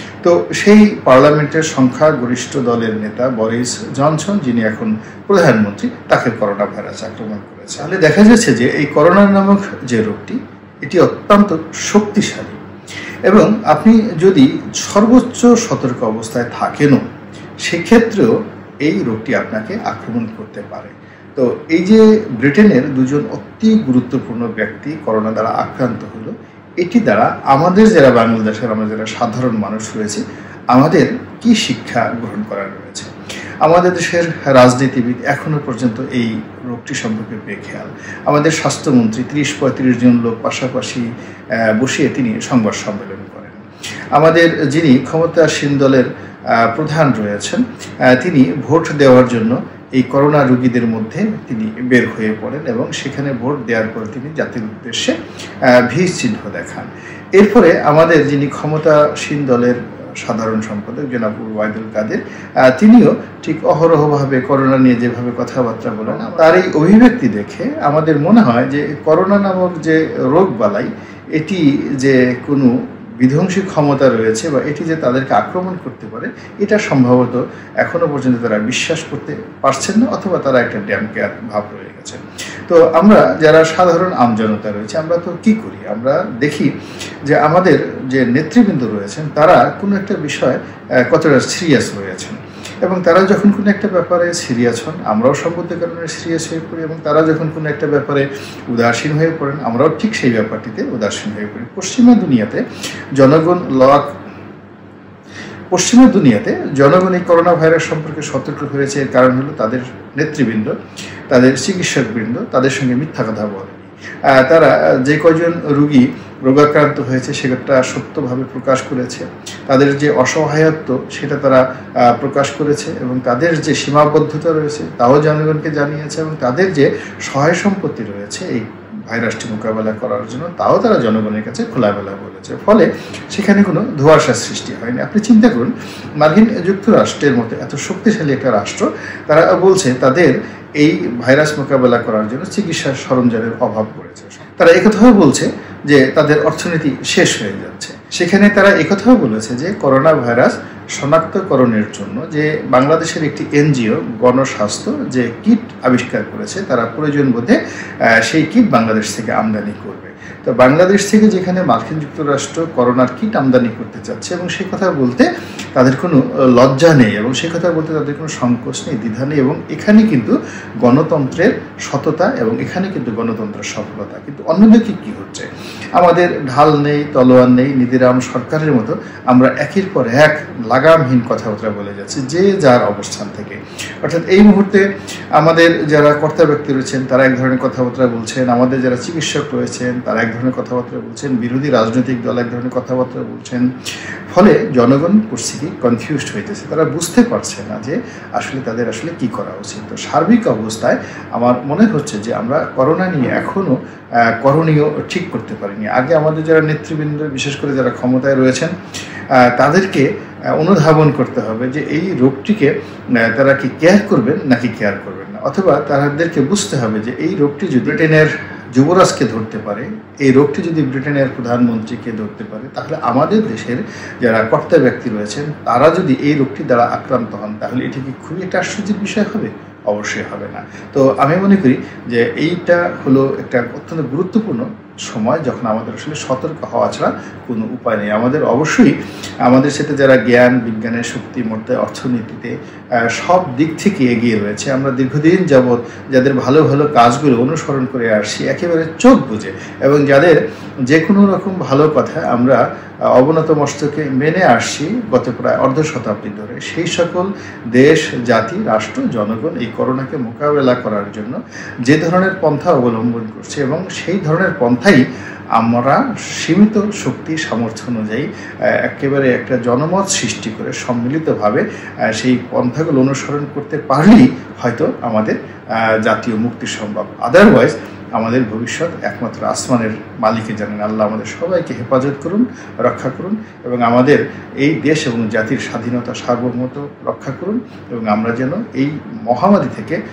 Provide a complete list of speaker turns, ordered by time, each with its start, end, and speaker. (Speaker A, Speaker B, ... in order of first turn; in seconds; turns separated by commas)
Speaker A: 0.2-12.6, Speaker A: 13.2-17.0, Speaker A: 17.6-18.3, Speaker A: 18.8-33.1, Speaker A: 33.6-41.1, Speaker A: 41.7-43.6, Speaker A: 44.1-55.1, Speaker A: 55.7-86.7, Speaker A: 87.2-102.6, Speaker A: 103.2-104.1, Speaker A: 105.7-110.7, Speaker A: 111.3-193.7, Speaker A: 194.3-208.7, Speaker A: 209.3-252.6, Speaker A: 253.1-265.0, Speaker A: 265.5-290.0